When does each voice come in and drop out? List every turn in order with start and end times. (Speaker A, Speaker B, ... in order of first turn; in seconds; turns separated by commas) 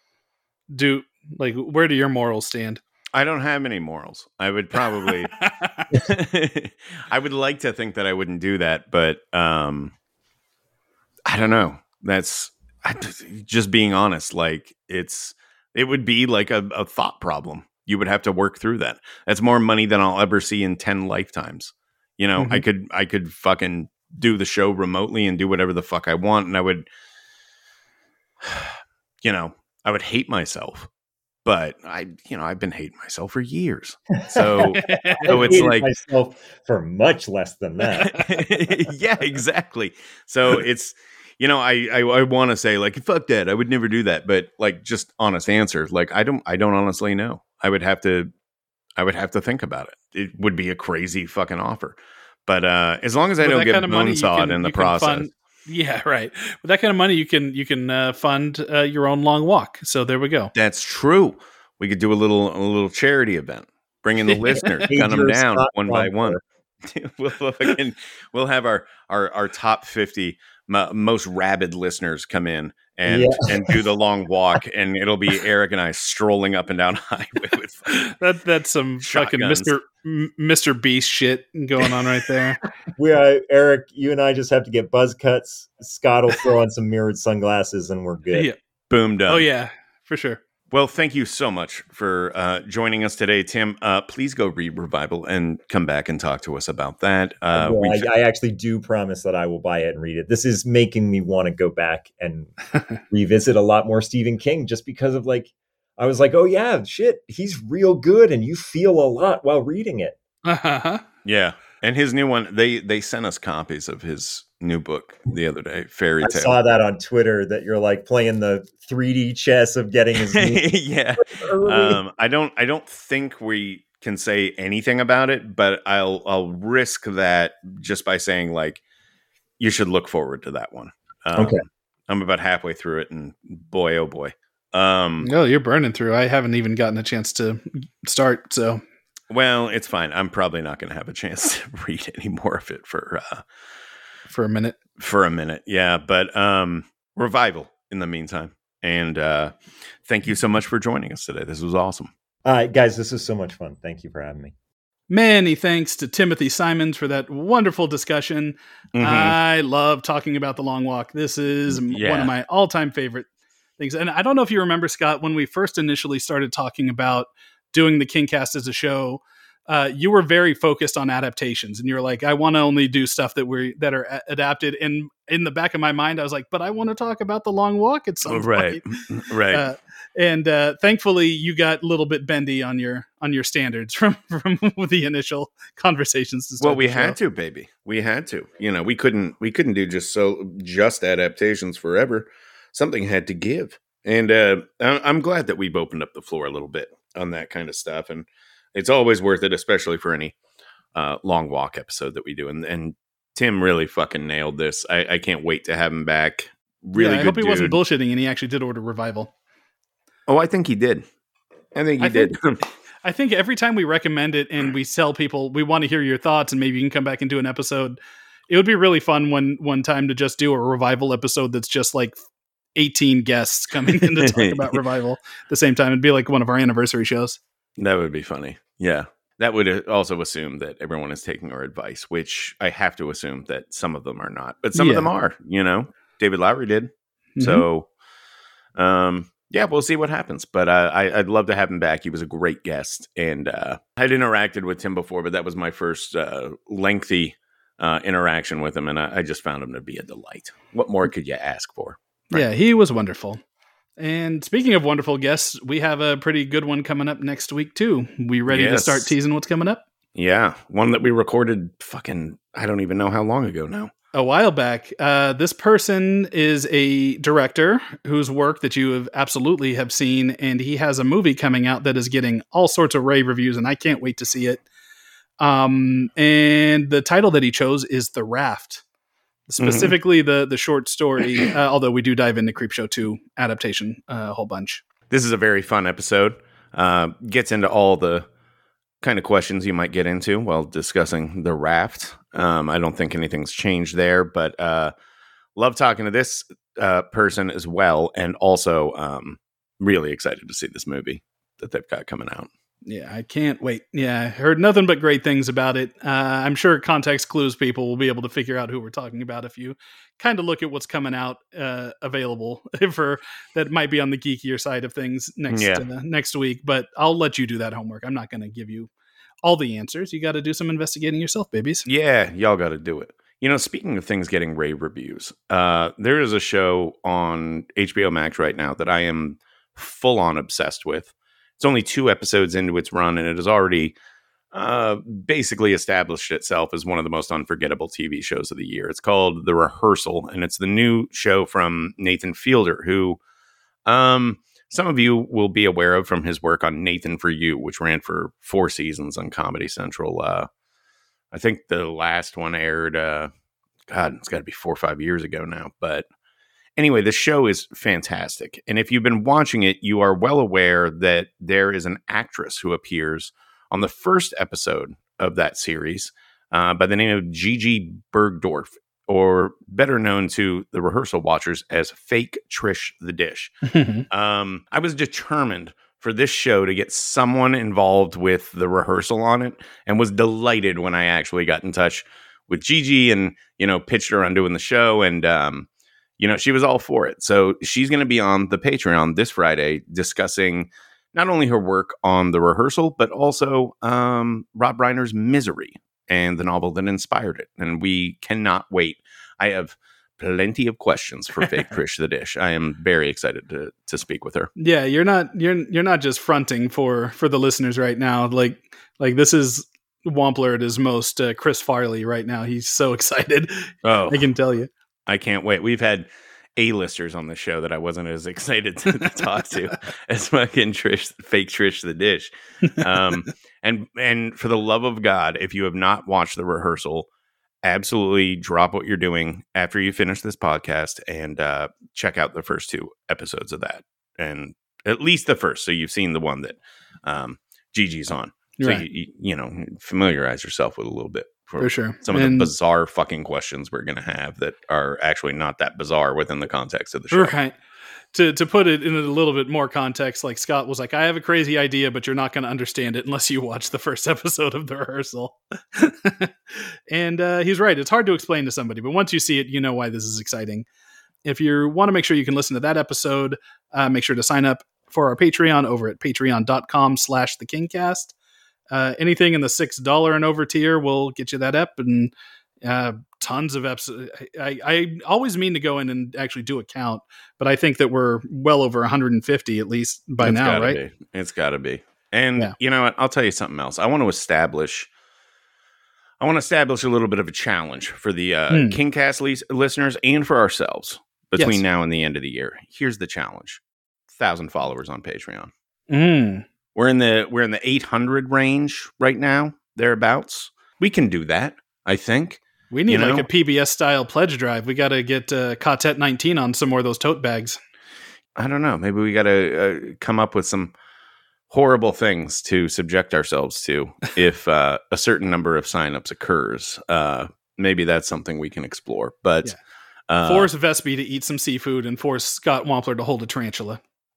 Speaker A: 0.7-2.8, Speaker B: 3.1-5.3, Speaker A: 5.0-5.9, Speaker B: 5.9-9.9, Speaker B: 11.3-26.9, Speaker A: 22.4-22.6, Speaker B: 28.4-30.9, Speaker B: 31.4-35.9, Speaker C: 34.2-38.2, Speaker A: 34.8-35.7, Speaker B: 38.2-48.3, Speaker B: 49.0-55.3, Speaker A: 53.4-60.5, Speaker B: 60.5-78.1, Speaker A: 64.3-64.9, Speaker C: 64.9-66.4, Speaker C: 73.1-73.8, Speaker A: 77.9-82.6, Speaker B: 79.0-79.7, Speaker C: 83.0-88.5, Speaker A: 88.3-88.6, Speaker B: 88.9-89.5, Speaker A: 89.3-90.4, Speaker B: 90.7-98.1, Speaker C: 97.5-102.5, Speaker C: 103.1-110.2, Speaker A: 110.5-111.0, Speaker B: 111.2-116.6, Speaker C: 116.2-120.7, Speaker B: 120.2-128.8, Speaker C: 121.2-122.0, Speaker B: 129.6-135.3, Speaker C: 131.3-131.6, Speaker A: 135.2-138.8, Speaker B: 139.3-143.4, Speaker A: 144.3-144.8, Speaker B: 145.0-152.1, Speaker C: 152.4-154.5, Speaker A: 155.1-163.3, Speaker B: 158.9-159.4, Speaker B: 161.9-162.3, Speaker A: 163.8-179.0, Speaker B: 178.2-179.7, Speaker A: 179.5-187.2, Speaker B: 186.6-200.3, Speaker B: 200.9-207.8, Speaker A: 206.9-209.3, Speaker B: 210.3-211.1, Speaker B: 211.8-212.6, Speaker A: 212.0-212.4, Speaker A: 213.0-222.2, Speaker A: 222.8-227.4, Speaker B: 224.1-224.8, Speaker B: 227.8-237.9, Speaker A: 234.8-235.1, Speaker A: 237.4-237.7, Speaker B: 238.8-252.5, Speaker A: 252.3-253.4, Speaker A: 254.0-259.8, Speaker B: 258.5-259.1, Speaker B: 260.2-263.9, Speaker A: 264.1-274.6, Speaker A: 275.4-278.8, Speaker A: 279.5-284.8, Speaker B: 279.6-280.0, Speaker B: 285.1-288.3, Speaker B: 289.0-294.9, Speaker B: 295.6-302.5, Speaker A: 302.9-318.9, Speaker B: 315.5-315.9, Speaker A: 319.4-321.9, Speaker B: 321.9-333.9, Speaker B: 334.5-343.2, Speaker B: 343.9-350.5, Speaker B: 351.3-353.3, Speaker B: 353.9-356.1, Speaker B: 356.8-373.6, Speaker A: 373.7-374.1, Speaker B: 374.1-385.7, Speaker B: 386.2-404.5, Speaker A: 404.6-414.7, Speaker B: 413.8-414.3, Speaker B: 415.1-427.1, Speaker A: 419.0-419.3, Speaker B: 427.6-447.4, Speaker A: 438.6-438.9, Speaker A: 441.6-442.5, Speaker A: 447.1-447.6, Speaker A: 448.1-460.7, Speaker A: 461.2-468.1, Speaker A: 468.7-472.1, Speaker A: 472.6-480.8, Speaker B: 480.2-484.9, Speaker B: 486.2-495.5, Speaker A: 488.5-488.8, Speaker A: 491.4-491.6, Speaker A: 495.9-496.4, Speaker B: 496.8-503.3, Speaker A: 502.7-507.6, Speaker B: 508.4-510.7, Speaker B: 511.5-519.5, Speaker B: 520.1-520.5, Speaker A: 520.2-523.8